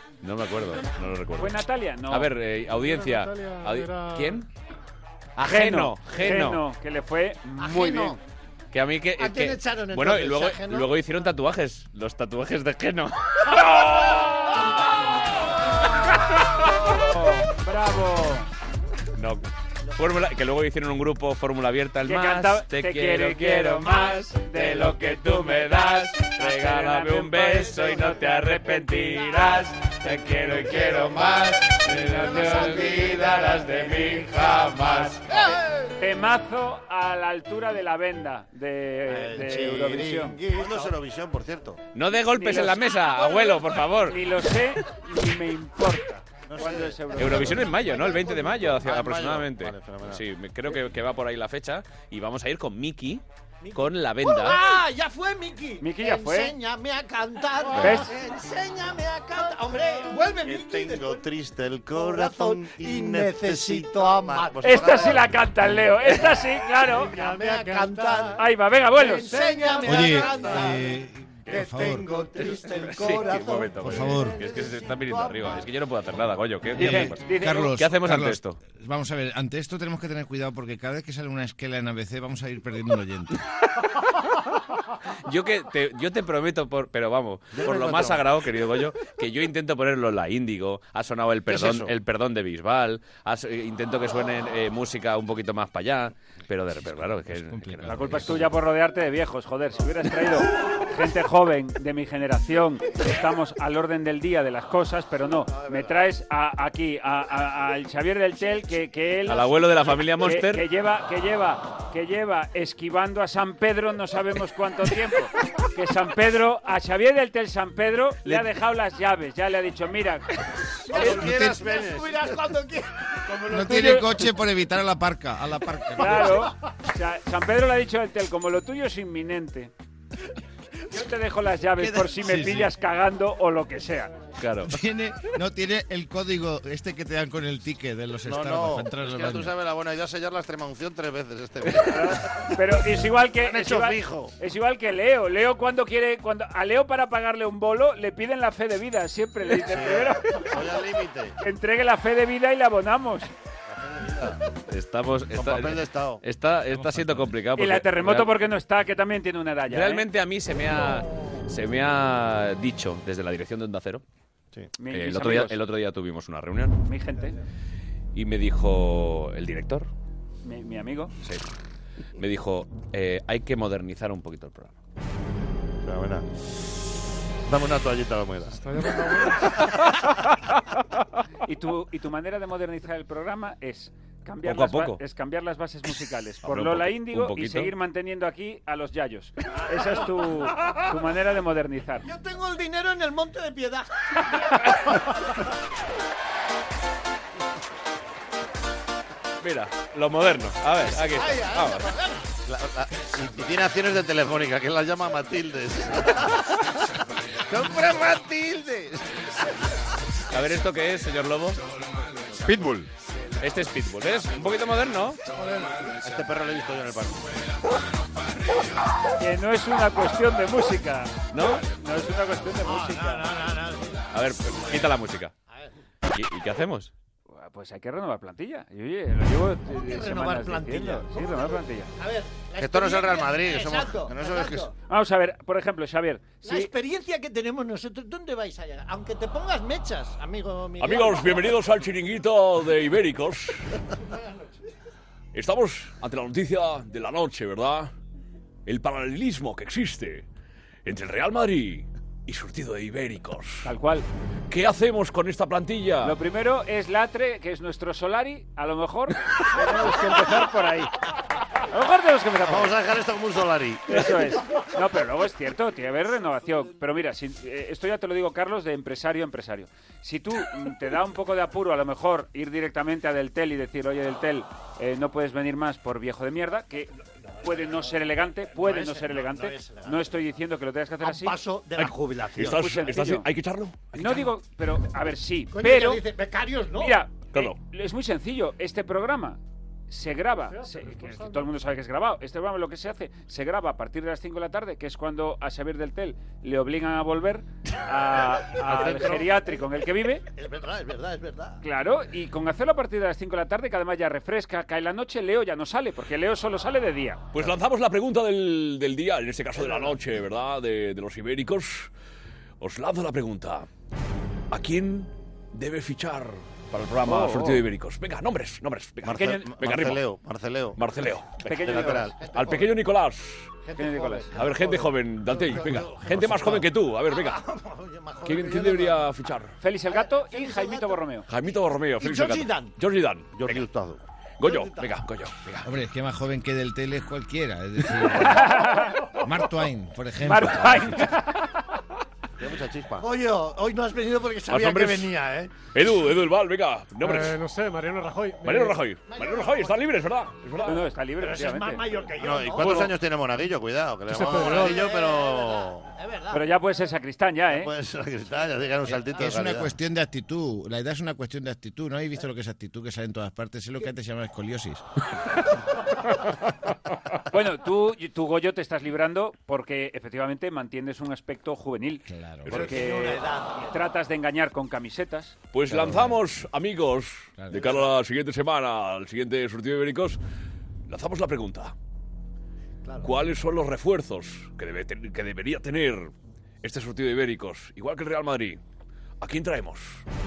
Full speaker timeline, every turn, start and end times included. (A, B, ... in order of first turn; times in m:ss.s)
0:00.2-0:04.4 A
0:01.4-0:02.3 B
0:02.7-0:04.4 C
0:05.4-0:06.6 A
0:05.4-0:08.2 B
0:07.6-0:08.2 D
0:08.7-0:14.6 A
0:09.2-0:10.9 D
0:16.4-0:18.5 B
0:19.2-0:19.4 A
0:20.0-0:35.2 A
0:22.0-0:29.6 B
0:32.4-0:33.2 D
0:36.0-0:40.4 B
0:39.1-0:41.0 D
0:40.5-0:41.8 E
0:41.9-0:44.2 A
0:42.3-0:43.4 B
0:44.0-0:47.7 B
0:46.5-0:47.0 E
0:47.2-0:53.2 A
0:47.6-0:48.1 D
0:47.8-0:50.2 E
0:53.6-1:01.2 D
0:53.7-0:54.6 A
0:55.8-0:56.6 B
0:57.8-0:58.0 A
0:57.8-0:58.1 B
1:00.4-1:05.3 E
1:01.9-1:05.2 D
1:04.6-1:07.2 B
1:06.9-1:08.4 D
1:07.2-1:08.3 C
1:08.4-1:09.7 B
1:08.9-1:15.6 D
1:09.6-1:09.8 C
1:09.8-1:12.1 F
1:12.4-1:18.6 A
1:13.8-1:14.4 F
1:16.7-1:23.3 F
1:16.8-1:17.7 B
1:25.2-1:38.5 A
1:27.5-1:28.2 E
1:31.5-1:31.9 E
1:37.1-1:38.4 F
1:37.9-2:00.3 B
1:49.2-1:50.6 A
2:00.9-2:01.6 B
2:00.9-2:02.9 D
2:00.9-2:02.2 E
2:03.4-2:04.2 B
2:03.5-2:06.4 F
2:06.0-2:09.7 B
2:10.9-2:14.1 B
2:11.8-2:12.7 F
2:14.4-2:14.7 A
2:14.6-2:19.5 F
2:18.2-2:22.2 E
2:21.8-2:30.5 B
2:23.4-2:24.3 E
2:29.6-2:31.4 E
2:31.4-2:33.3 B
2:33.7-2:34.4 E
2:34.7-2:38.3 A
2:35.3-2:36.2 E
2:36.7-2:37.3 F
2:37.6-2:40.1 B
2:39.7-2:44.0 A
2:44.8-2:45.6 B
2:44.9-2:46.8 A
2:46.8-2:47.4 B
2:48.1-2:49.9 A
2:50.4-2:51.1 B
2:52.2-2:54.8 A
2:55.8-2:56.2 E
2:57.5-2:58.7 E
2:58.6-2:59.6 C
3:01.4-3:12.0 B
3:04.4-3:05.0 A
3:06.4-3:07.7 A
3:09.7-3:10.4 D
3:12.0-3:15.4 D
3:19.4-3:21.9 A
3:20.9-3:22.3 D
3:22.4-3:26.4 E
3:27.5-3:29.0 E
3:30.3-3:31.6 A
3:33.4-3:35.2 A
3:36.0-3:37.2 E
3:39.2-3:43.3 B
3:41.3-3:41.6 A
3:42.6-3:44.0 D
3:44.1-3:45.3 A
3:44.6-3:44.9 D
3:46.1-3:46.9 A
3:47.3-3:51.9 B
3:49.7-3:54.7 D
3:52.6-3:54.7 E
3:54.9-3:56.7 B
3:56.4-4:01.6 D
4:00.8-4:03.6 G
4:05.3-4:07.9 G
4:08.6-4:10.2 G
4:10.8-4:13.7 G
4:13.6-4:14.0 B
4:14.5-4:16.2 G
4:16.0-4:20.9 B
4:21.7-4:22.8 B
4:22.4-4:24.0 E
4:23.9-4:36.9 B
4:37.4-4:40.2 D
4:37.4-4:41.4 B
4:41.0-4:42.9 D
4:42.4-4:44.0 G
4:42.5-4:43.3 B
4:43.9-4:44.2 A
4:43.9-4:46.0 B
4:45.5-4:47.0 D
4:46.7-5:00.2 B
4:50.6-4:51.5 C
4:58.6-4:59.3 E
5:00.3-5:01.6 D
5:01.6-5:07.3 B
5:07.3-5:11.9 G
5:09.6-5:10.0 D
5:12.6-5:13.7 G
5:14.5-5:19.0 G
5:17.0-5:17.7 A
5:17.1-5:17.5 B
5:19.0-5:20.8 E
5:19.1-5:19.6 B
5:20.8-5:21.2 G
5:21.4-5:22.1 B
5:21.4-5:22.2 E
5:22.2-5:22.7 D
5:22.3-5:23.5 G
5:23.6-5:29.1 D
5:23.8-5:24.3 B
5:24.4-5:27.3 G
5:25.8-5:26.3 A
5:28.2-5:29.5 G
5:29.6-5:31.2 B
5:29.8-5:31.0 D
5:31.3-5:33.3 G
5:32.0-5:32.7 D
5:33.3-5:34.0 E
5:34.4-5:35.0 D
5:34.8-5:35.6 A
5:35.6-5:38.6 F
5:38.1-5:39.0 B
5:39.2-5:41.1 F
5:40.2-5:41.5 B
5:42.4-5:43.1 E
5:43.0-5:45.5 D
5:44.5-5:45.0 G
5:45.7-5:47.3 G
5:47.0-5:48.9 C
5:48.5-5:50.6 G
5:49.0-5:49.9 D
5:50.6-5:52.9 D
5:50.6-5:52.0 B
5:52.2-5:55.9 E
5:52.6-5:52.9 B
5:54.1-5:54.7 C
5:54.3-5:56.5 D
5:56.3-5:57.7 B
5:57.5-5:59.7 E
5:58.9-6:04.8 F
6:07.3-6:15.4 B
6:12.0-6:12.7 F
6:12.5-6:13.7 D
6:15.5-6:20.2 G
6:15.7-6:16.3 F
6:17.4-6:17.7 F
6:20.9-6:21.7 G
6:22.8-6:23.1 D
6:23.0-6:28.6 G
6:29.2-6:30.0 G